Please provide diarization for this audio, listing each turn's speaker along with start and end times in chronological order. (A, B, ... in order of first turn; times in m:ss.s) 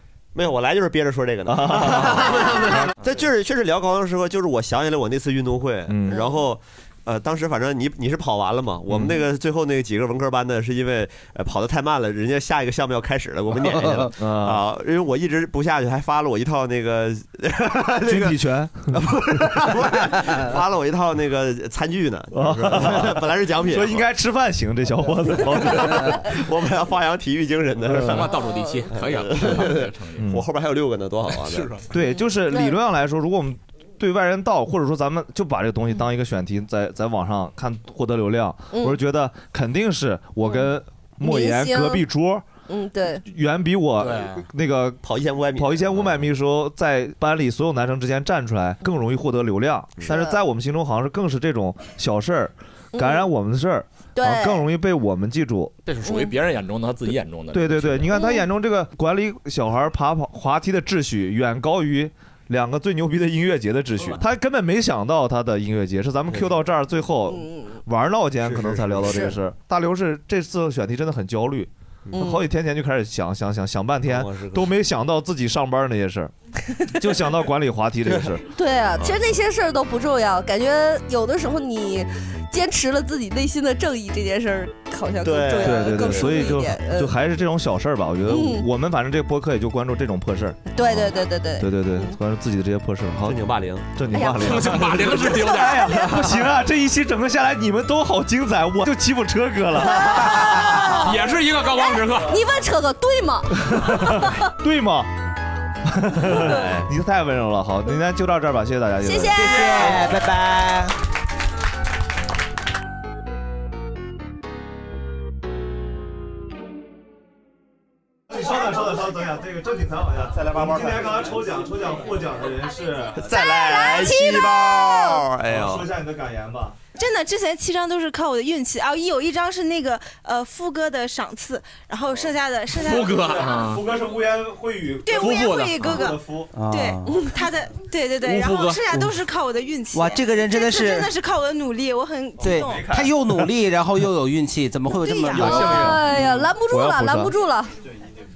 0:00.4-0:18.4 A
0:01.5-0:02.9 B
0:05.9-0:06.2 B
0:08.9-0:09.2 B
0:13.6-0:14.1 C
0:14.2-0:14.6 B
0:18.1-0:19.6 B
0:18.9-0:24.0 A
0:22.3-0:26.4 B
0:25.6-0:28.3 A
0:27.9-0:28.3 B
0:27.9-0:30.3 D
0:28.9-0:31.7 A
0:30.2-0:30.4 B
0:31.3-0:31.9 D
0:31.9-0:42.4 B
0:32.5-0:32.8 E
0:41.2-0:42.0 E
0:42.7-0:43.2 E
0:43.2-0:45.0 B
0:44.0-0:44.4 D
0:45.0-0:46.1 A
0:45.6-0:55.7 B
0:50.1-0:50.4 E
0:53.0-0:53.2 E
0:54.2-0:54.6 E
0:55.8-0:58.1 D
0:57.5-1:16.3 B
0:58.1-0:58.4 E
1:07.3-1:07.8 E
1:08.4-1:09.4 A
1:14.1-1:14.7 A
1:17.0-1:18.4 B
1:18.1-1:18.4 A
1:18.6-1:27.1 E
1:25.2-1:26.5 A
1:25.6-1:40.6 B
1:28.3-1:28.7 E
1:30.7-1:32.2 E
1:33.3-1:33.8 A
1:34.1-1:36.4 E
1:34.4-1:35.9 D
1:39.8-1:44.4 E
1:40.4-1:40.6 C
1:41.0-1:42.4 D
1:43.7-1:45.1 B
1:45.8-1:50.0 B
1:46.3-1:46.5 E
1:49.0-1:49.9 E
1:49.3-1:51.0 C
1:58.3-2:04.6 B
2:00.3-2:01.4 A
2:03.2-2:05.9 A
2:03.3-2:05.2 E
2:05.4-2:06.8 B
2:07.0-2:13.4 F
2:12.7-2:13.8 D
2:13.2-2:16.5 B
2:15.1-2:23.0 F
2:15.1-2:16.2 D
2:16.5-2:17.2 C
2:18.2-2:18.9 D
2:19.9-2:21.1 C
2:22.4-2:26.0 C
2:22.6-2:23.1 B
2:25.0-2:25.9 F
2:25.3-2:27.3 B
2:25.3-2:27.7 E